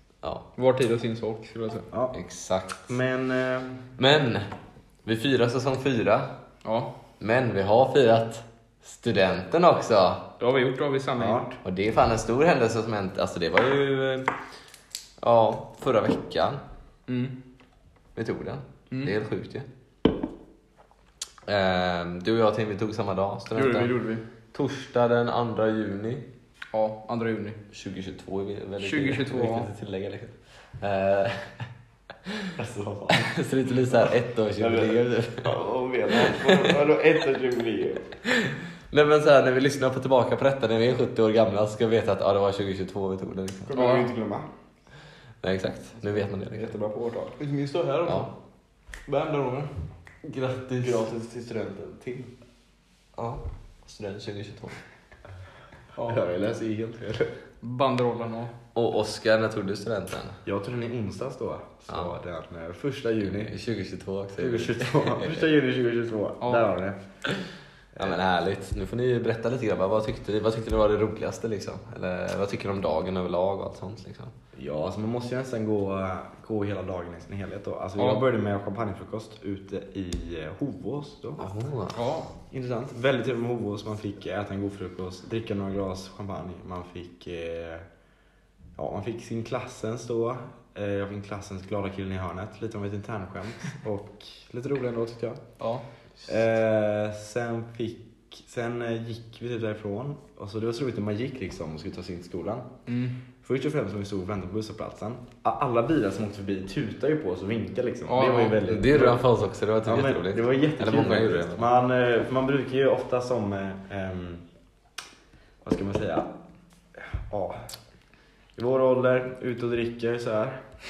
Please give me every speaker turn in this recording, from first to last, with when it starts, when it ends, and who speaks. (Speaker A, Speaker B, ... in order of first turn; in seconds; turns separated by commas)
Speaker A: 0.6-1.9, Speaker B: 2.1-2.9, Speaker C: 2.9-3.8, Speaker B: 4.0-4.5, Speaker B: 5.0-6.3, Speaker A: 6.6-6.9, Speaker B: 7.2-10.2, Speaker A: 10.4-11.5, Speaker C: 11.2-11.5, Speaker B: 11.6-14.3, Speaker B: 15.2-16.6, Speaker A: 17.1-17.4, Speaker B: 18.1-19.6, Speaker B: 21.4-23.9, Speaker A: 23.5-24.2, Speaker B: 24.5-26.2, Speaker A: 26.7-27.6, Speaker B: 27.7-31.6, Speaker A: 28.8-29.7, Speaker B: 32.3-32.5, Speaker C: 32.6-33.3, Speaker B: 33.1-35.5, Speaker C: 33.9-38.1, Speaker B: 36.1-36.8, Speaker B: 38.3-43.7, Speaker C: 43.6-44.5, Speaker A: 43.7-44.1, Speaker B: 45.4-46.7, Speaker C: 46.5-47.4, Speaker A: 47.4-48.3, Speaker B: 48.0-48.3, Speaker A: 49.1-49.7, Speaker B: 50.2-51.1, Speaker C: 50.8-52.3, Speaker B: 53.2-54.8, Speaker C: 56.0-57.3, Speaker A: 57.6-58.5, Speaker B: 58.7-60.4, Speaker C: 60.4-63.5, Speaker B: 63.2-65.5, Speaker C: 64.4-67.0, Speaker B: 68.0-74.3, Speaker C: 74.5-81.4, Speaker A: 78.0-78.2, Speaker B: 81.4-82.0, Speaker A: 81.9-82.3, Speaker C: 82.5-87.9, Speaker C: 88.8-95.4, Speaker A: 95.6-95.8, Speaker C: 96.2-102.7, Speaker A: 102.9-103.2, Speaker C: 103.4-109.2, Speaker A: 108.1-108.6, Speaker B: 108.6-111.6, Speaker C: 109.8-114.4, Speaker C: 115.6-116.3, Speaker C: 117.0-117.7, Speaker C: 118.5-120.6